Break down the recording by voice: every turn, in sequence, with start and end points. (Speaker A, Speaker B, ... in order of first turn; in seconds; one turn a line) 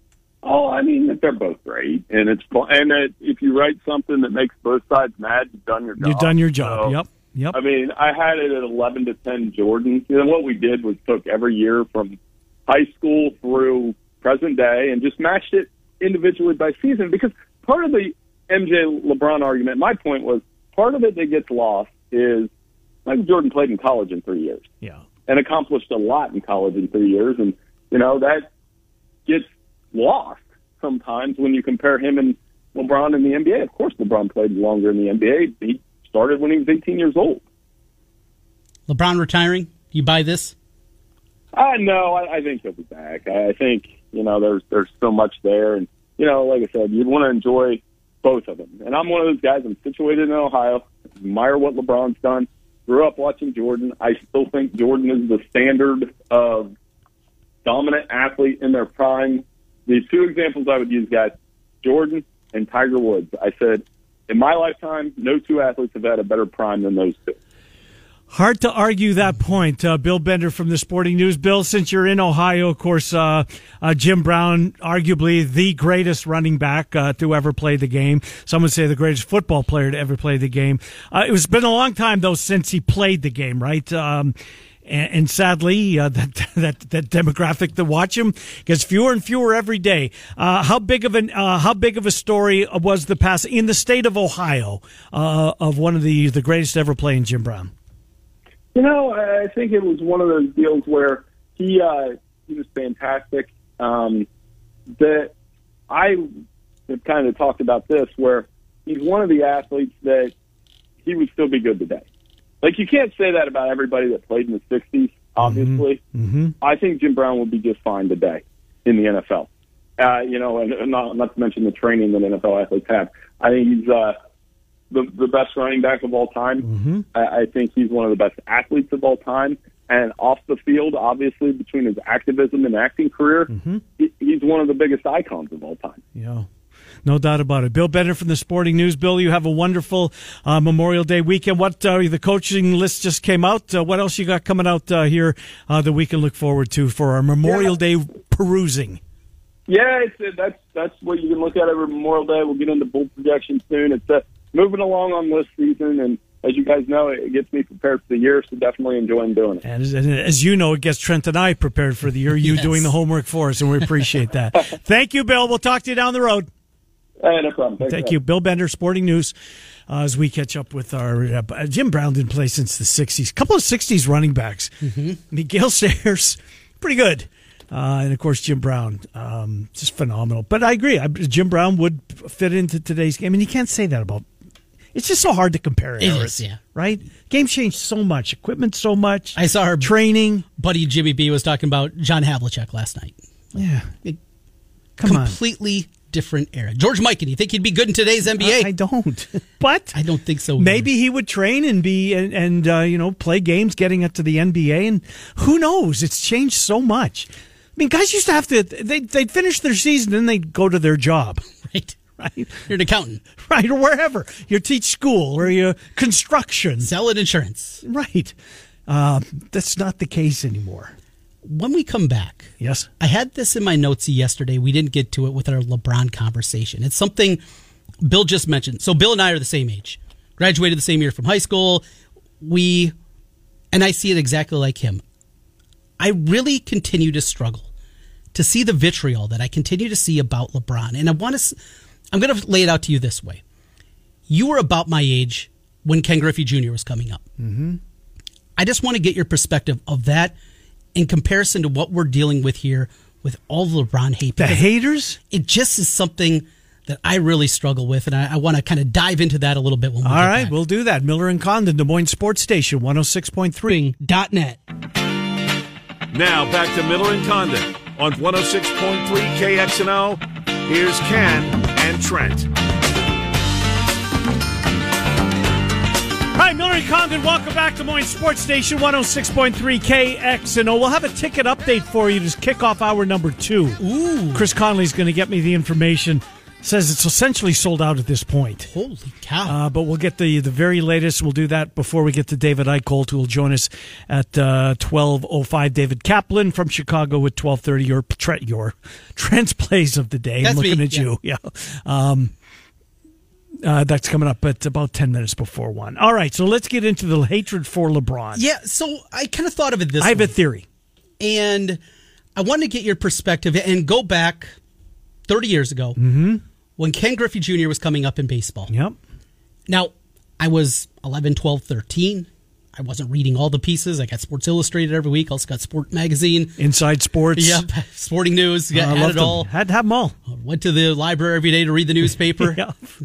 Speaker A: 0.4-7.0
Speaker B: 6.0-7.6
Speaker A: 7.5-22.5
Speaker A: 23.1-24.6
Speaker A: 25.3-28.5
Speaker A: 29.2-37.4
Speaker C: 38.9-40.5
Speaker A: 41.5-56.7
Speaker A: 57.6-67.4
Speaker B: 68.3-97.7
Speaker A: 98.7-104.3
Speaker A: 105.0-105.3
Speaker A: 105.9-106.2
Speaker A: 106.9-110.3
Speaker A: 111.0-112.0
Speaker A: 112.6-116.0
Speaker B: 115.4-116.5
Speaker A: 116.6-124.2
Speaker A: 124.9-136.0
Speaker B: 126.6-127.0
Speaker B: 133.5-133.8
Speaker B: 136.1-136.5
Speaker B: 137.0-149.0
Speaker A: 149.7-159.6
Speaker B: 159.6-166.5
Speaker C: 162.4-162.9
Speaker A: 167.2-168.1
Speaker B: 167.9-169.3
Speaker B: 169.9-184.2
Speaker C: 174.8-175.2
Speaker B: 184.9-190.4
Speaker C: 186.0-186.6
Speaker C: 189.3-189.9
Speaker C: 190.6-193.2
Speaker B: 193.5-193.9
Speaker B: 195.0-195.4
Speaker C: 195.0-198.7
Speaker B: 198.3-200.0
Speaker C: 199.9-200.9
Speaker B: 200.6-211.4
Speaker C: 211.6-212.0
Speaker B: 212.2-212.6
Speaker C: 212.6-213.2
Speaker B: 213.4-216.9
Speaker C: 216.8-217.8
Speaker B: 217.8-218.3
Speaker B: 218.9-220.9
Speaker C: 221.4-227.4
Speaker B: 222.6-222.9
Speaker C: 228.0-231.8
Speaker C: 232.4-232.9
Speaker C: 233.7-235.0
Speaker C: 236.0-237.7
Speaker C: 238.3-241.6
Speaker C: 242.1-243.4
Speaker C: 244.3-247.2
Speaker B: 247.4-247.8
Speaker C: 248.6-250.3
Speaker C: 250.9-254.7
Speaker B: 254.4-255.2
Speaker C: 255.3-260.5
Speaker B: 260.0-263.8
Speaker C: 263.7-264.6
Speaker D: 266.1-272.5
Speaker B: 276.3-283.8
Speaker C: 283.8-284.5
Speaker B: 284.3-288.7
Speaker C: 288.7-289.6
Speaker B: 289.4-302.3
Speaker C: 300.4-301.1
Speaker B: 303.6-308.4
Speaker C: 308.3-310.3
Speaker B: 310.0-310.6
Speaker C: 311.2-311.8
Speaker C: 312.4-314.6
Speaker C: 315.3-316.0
Speaker B: 316.0-316.4
Speaker C: 316.8-318.7
Speaker B: 318.7-319.0
Speaker C: 319.7-326.6
Speaker B: 326.6-327.6
Speaker C: 327.3-329.5
Speaker B: 328.7-330.1
Speaker C: 330.3-332.6
Speaker B: 332.4-332.9